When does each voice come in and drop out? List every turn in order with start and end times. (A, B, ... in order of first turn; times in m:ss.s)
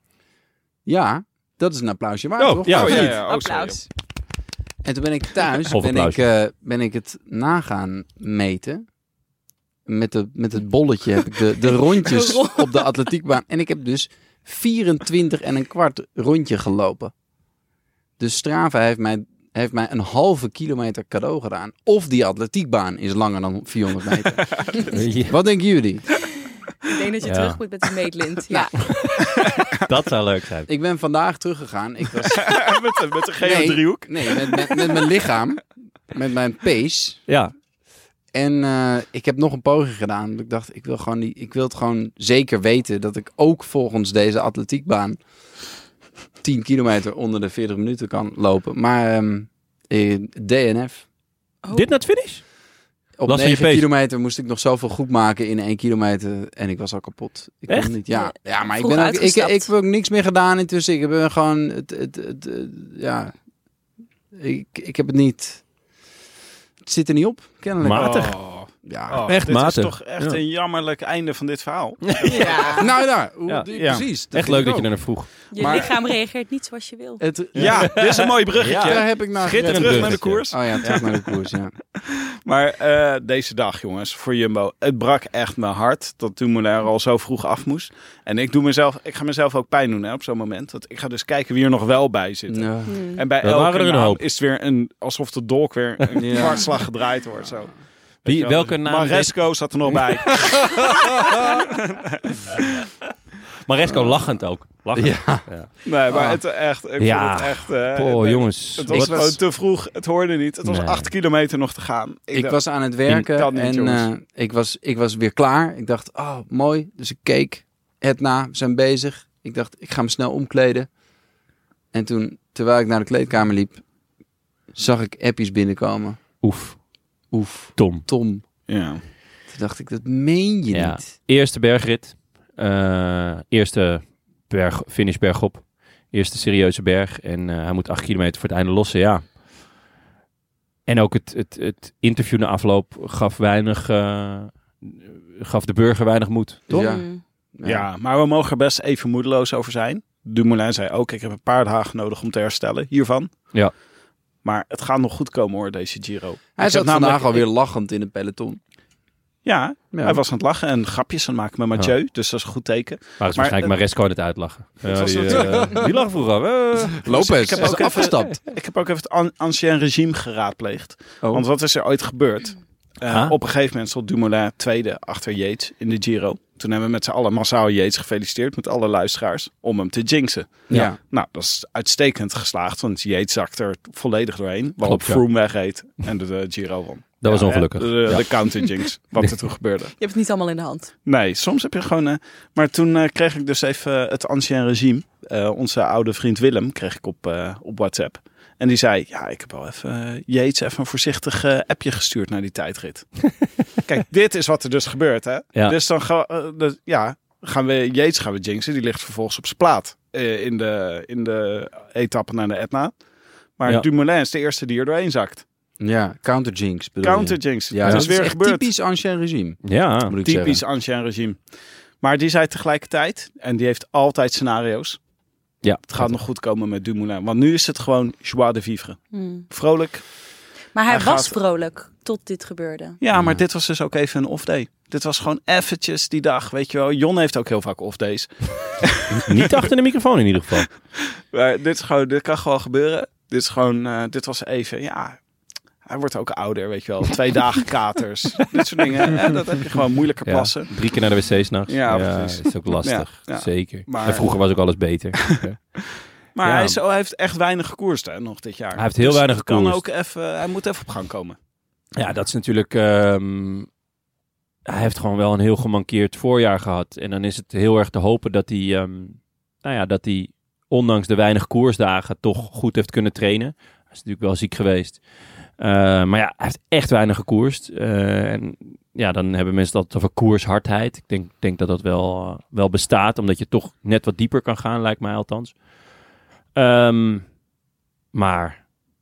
0:00.9-0:03.2 A
0:02.4-0:03.2 B
0:02.7-0:03.8 C
0:02.8-0:03.9 D
0:04.8-0:08.8 A
0:05.7-0:06.2 B
0:09.9-0:17.1 A
0:11.7-0:12.8 D
0:18.2-0:26.2 A
0:24.6-0:24.9 C
0:24.9-0:25.4 B
0:26.8-0:28.8 D
0:27.2-0:27.6 B
0:28.5-0:28.9 A
0:29.2-0:30.7 B
0:30.7-0:32.6 A
0:32.3-0:34.9 C
0:33.4-0:37.2 A
0:37.3-0:37.5 B
0:38.3-0:45.2 A
0:46.4-0:51.1 A
0:51.7-0:52.4 B
0:53.2-1:03.3 A
0:53.3-0:53.9 B
0:57.7-0:57.9 B
0:58.1-0:59.7 D
1:04.3-1:05.6 A
1:06.8-1:09.3 A
1:07.8-1:08.2 B
1:07.9-1:12.9 C
1:09.3-1:10.4 B
1:12.1-1:12.8 B
1:12.3-1:15.0 A
1:13.5-1:15.3 B
1:13.7-1:14.0 C
1:15.5-1:15.9 A
1:15.5-1:17.3 D
1:17.2-1:18.0 A
1:17.6-1:21.1 C
1:17.6-1:21.1 B
1:18.7-1:21.8 A
1:22.4-1:42.8 C
1:32.5-1:33.0 A
1:32.9-1:33.2 D
1:33.4-1:34.2 B
1:36.2-1:36.7 A
1:38.3-1:40.0 B
1:43.6-1:45.7 B
1:45.0-1:46.4 A
1:45.8-1:52.6 C
1:47.0-1:49.3 B
1:48.9-1:49.4 A
1:50.6-1:51.1 B
1:52.3-2:00.9 A
1:53.1-1:54.1 C
2:01.9-2:03.8 A
2:04.7-2:06.2 A
2:06.4-2:06.8 B
2:07.3-2:08.5 A
2:07.8-2:08.0 B
2:08.7-2:09.0 C
2:09.5-2:11.1 A
2:10.7-2:19.3 B
2:20.9-2:26.9 B
2:26.7-2:27.8 A
2:26.7-2:27.2 D
2:27.6-2:33.5 C
2:34.4-2:37.5 C
2:36.6-2:38.6 A
2:39.4-2:43.7 C
2:39.9-2:40.2 A
2:43.2-2:48.3 B
2:44.8-2:45.8 C
2:45.5-2:45.8 A
2:47.0-2:48.4 A
2:47.1-3:10.0 C
2:53.1-2:53.4 B
3:00.7-3:01.0 A
3:04.8-3:05.2 B
3:07.2-3:08.3 B
3:10.0-3:10.9 D
3:11.1-3:33.0 C
3:33.6-3:35.4 C
3:35.8-3:40.6 A
3:37.0-3:38.7 C
3:39.6-3:40.1 B
3:40.2-3:41.4 C
3:42.0-3:45.0 C
3:45.6-3:46.1 B
3:45.9-3:50.0 C
3:49.1-3:49.5 D
3:50.7-3:53.0 D
3:50.9-3:51.4 C
3:53.0-3:59.5 C
3:53.2-3:53.4 A
3:59.3-4:00.7 B
4:01.3-4:05.2 C
4:05.8-4:10.8 C
4:10.2-4:15.6 B
4:11.7-4:14.4 C
4:16.0-4:21.4 C
4:16.4-4:16.8 B
4:18.8-4:19.8 B
4:22.0-4:23.7 B
4:24.7-4:35.0 B
4:35.6-4:45.6 B
4:46.6-4:47.3 B
4:48.1-4:48.6 B